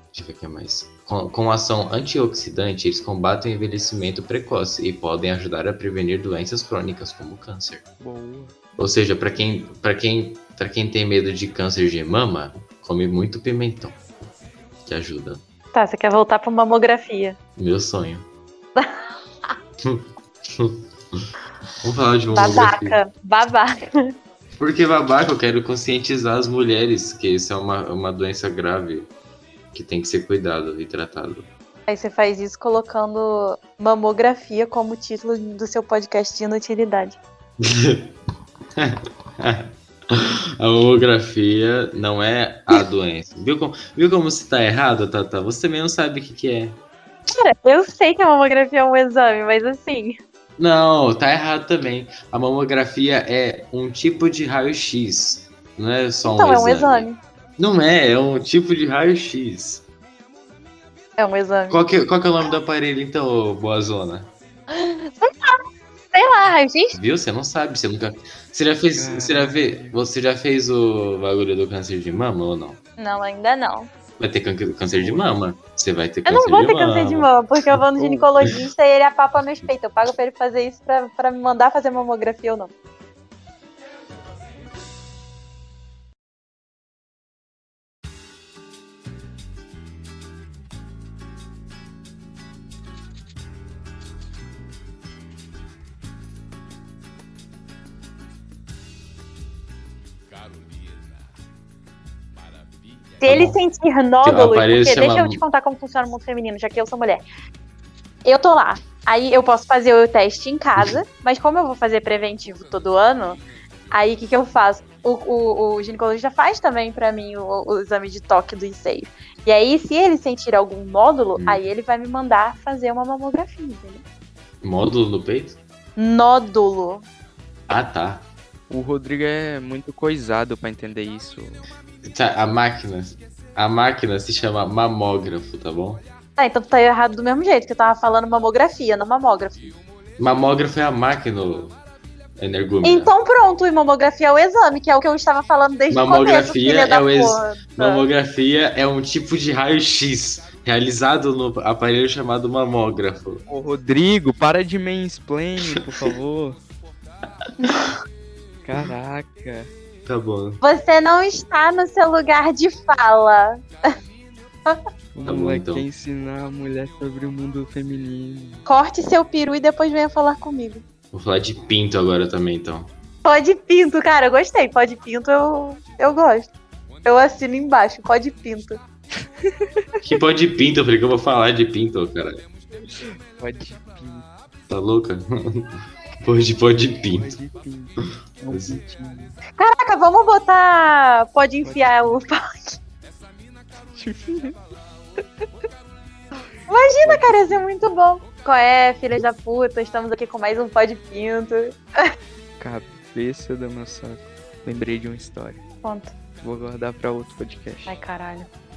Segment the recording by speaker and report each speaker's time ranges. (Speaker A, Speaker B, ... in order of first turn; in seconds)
Speaker A: 0.1-7.8, 8.8-14.0, 14.8-15.4, 17.6-18.3, 19.8-21.2, 21.8-23.0, 24.6-29.1, 29.7-31.5, 37.6-38.1, 38.8-46.8, 50.6-59.8, 61.7-64.3, 66.9-72.8, 74.2-77.3, 103.2-103.6, 104.2-105.4, 121.3-121.7, 124.6-125.6, 127.7-128.2, 132.0-136.0, 140.2-141.8, 142.4-143.1, 145.9-153.4, 157.7-157.9, 160.1-160.6, 165.2-165.8, 171.1-172.9, 180.0-182.4, 184.7-187.3, 188.5-188.8
Speaker B: 8.0-8.5, 68.9-70.0, 74.9-75.3, 78.0-78.3, 128.7-131.7, 153.5-156.6, 158.6-159.7, 165.1-168.7, 179.4-179.8, 182.9-184.3, 187.1-189.4, 191.6-192.2, 193.9-194.6, 195.2-195.5, 197.0-197.7, 202.6-205.6, 206.4-208.0
Speaker C: 15.7-17.4, 18.8-19.5, 22.3-24.1, 31.9-37.2, 47.3-50.2, 56.2-57.2, 61.2-61.8, 64.7-65.6, 66.1-67.0, 73.0-73.9, 76.2-82.7, 103.2-107.2, 108.2-113.4, 113.9-124.0, 126.0-127.0, 136.4-139.8, 142.8-148.1, 160.6-163.6, 168.7-170.8, 173.2-176.5, 177.0-178.8, 189.6-192.8, 196.7-202.1, 205.8-206.1, 207.9-208.5